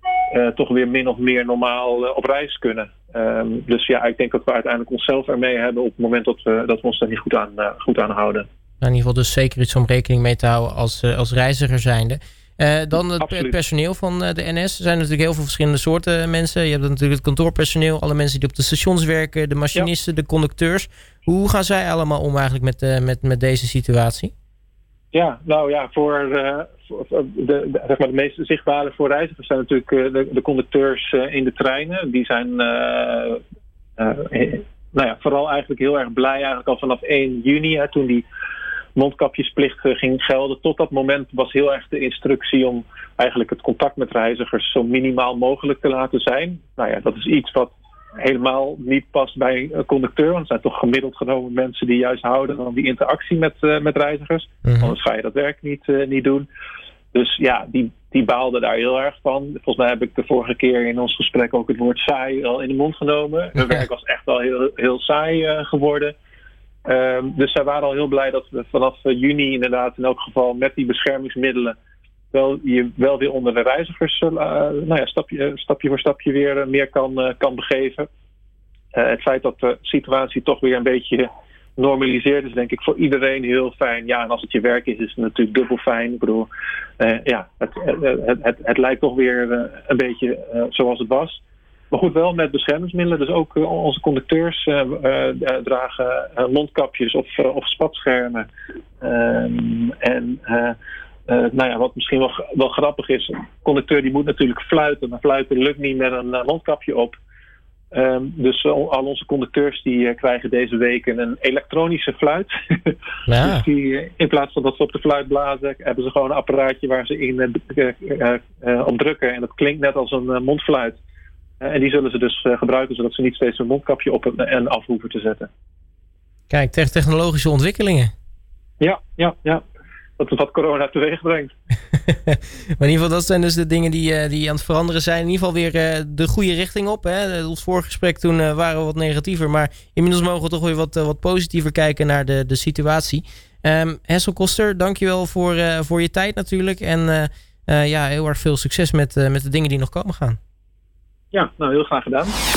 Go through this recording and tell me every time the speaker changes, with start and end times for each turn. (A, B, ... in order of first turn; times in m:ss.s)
0:00.3-0:08.4 A
0:08.8-0:24.3 B
0:13.2-0:13.5 A
0:25.1-0:33.4 A
0:34.0-0:38.2 A
0:39.0-0:56.5 A
0:54.6-0:54.9 B
0:57.1-1:06.1 A
1:06.8-1:11.7 A
1:12.3-1:18.1 A
1:18.9-1:38.5 A
1:39.0-1:40.8 A
1:41.3-1:47.1 A
1:47.9-2:01.0 A
1:53.3-1:53.6 B
2:01.6-2:05.5 A
2:06.5-2:08.1 B
2:08.8-2:09.6 A
2:10.2-2:11.5 A
2:12.1-2:30.4 B
2:31.3-2:32.3 A